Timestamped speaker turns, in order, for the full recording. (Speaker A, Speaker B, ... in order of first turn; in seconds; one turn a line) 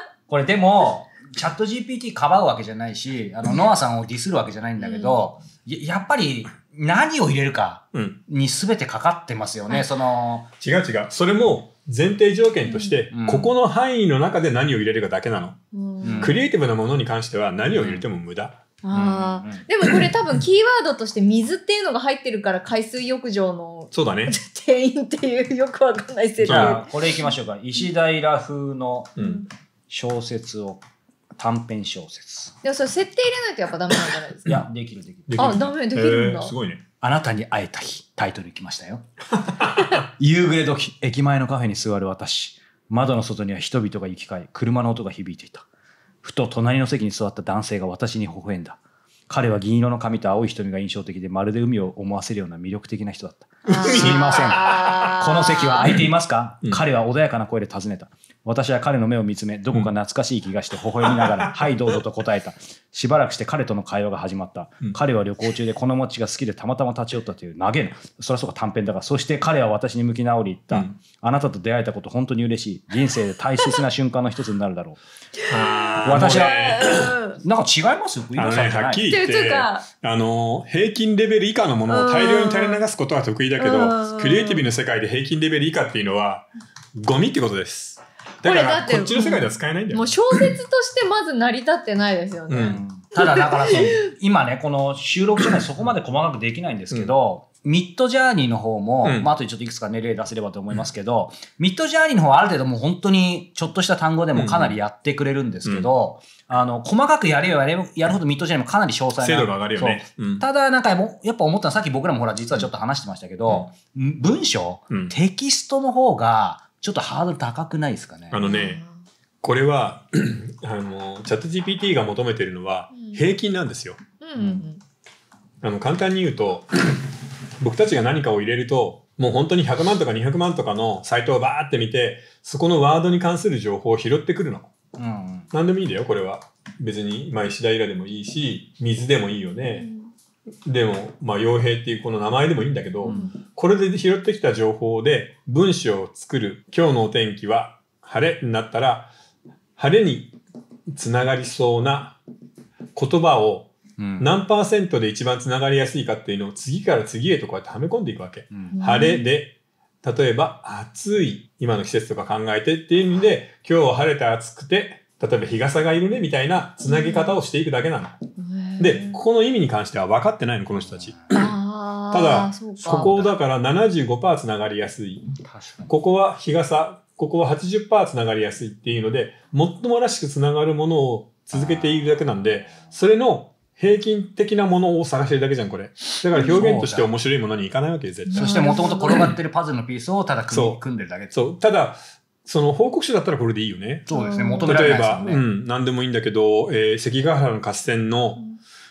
Speaker A: 0.3-10.5
Speaker B: 4.8-5.2
Speaker C: 7.9-8.2
Speaker C: 10.6-15.6
Speaker B: 12.7-13.0
Speaker A: 13.1-13.5
Speaker B: 15.7-16.4
Speaker A: 16.0-16.4
Speaker C: 16.2-18.6
Speaker A: 17.6-18.1
Speaker B: 18.8-27.2
Speaker A: 18.9-19.6
Speaker C: 23.9-24.4
Speaker C: 26.4-26.8
Speaker A: 26.4-29.1
Speaker C: 29.2-29.4
Speaker B: 29.2-29.5
Speaker A: 29.9-30.8
Speaker A: 31.4-32.5
Speaker B: 32.6-34.6
Speaker A: 34.5-35.6
Speaker C: 35.3-36.8
Speaker B: 35.4-36.5
Speaker A: 37.0-39.0
Speaker A: 39.8-45.7
Speaker A: 46.2-75.0
Speaker C: 53.7-55.1
Speaker B: 53.7-55.9
Speaker C: 61.1-62.0
Speaker B: 75.4-77.4
Speaker C: 75.5-77.2
Speaker A: 76.0-76.7
Speaker A: 77.4-79.1
Speaker C: 78.4-90.5
Speaker B: 79.1-79.9
Speaker B: 81.9-82.8
Speaker B: 83.6-84.7
Speaker B: 88.4-94.1
Speaker C: 92.5-92.8
Speaker A: 92.6-118.4
Speaker C: 99.0-99.3
Speaker C: 104.3-104.8
Speaker C: 105.6-105.9
Speaker C: 109.2-110.5
Speaker C: 118.3-118.8
Speaker B: 118.4-119.0
Speaker C: 119.4-124.0
Speaker B: 122.9-123.2
Speaker B: 124.2-124.8
Speaker A: 124.4-124.6
Speaker C: 125.6-127.1
Speaker C: 127.6-134.7
Speaker A: 135.0-135.5
Speaker C: 135.5-139.9
Speaker B: 139.6-140.1
Speaker C: 140.7-149.1
Speaker A: 143.1-143.3
Speaker B: 143.1-143.3
Speaker C: 149.8-150.4
Speaker C: 150.9-152.2
Speaker C: 152.9-168.2
Speaker A: 154.0-154.3
Speaker A: 158.5-158.8
Speaker B: 158.7-159.3
Speaker B: 166.8-167.4
Speaker B: 168.4-169.2
Speaker C: 168.8-171.5
Speaker A: 170.8-171.4
Speaker B: 171.3-173.2
Speaker C: 172.1-175.3
Speaker A: 175.4-175.9
Speaker C: 175.9-189.3
Speaker A: 186.3-187.1
Speaker B: 188.3-189.3
Speaker A: 188.3-191.4
Speaker C: 190.5-194.1
Speaker B: 194.1-194.8
Speaker A: 194.1-195.4
Speaker C: 194.7-198.4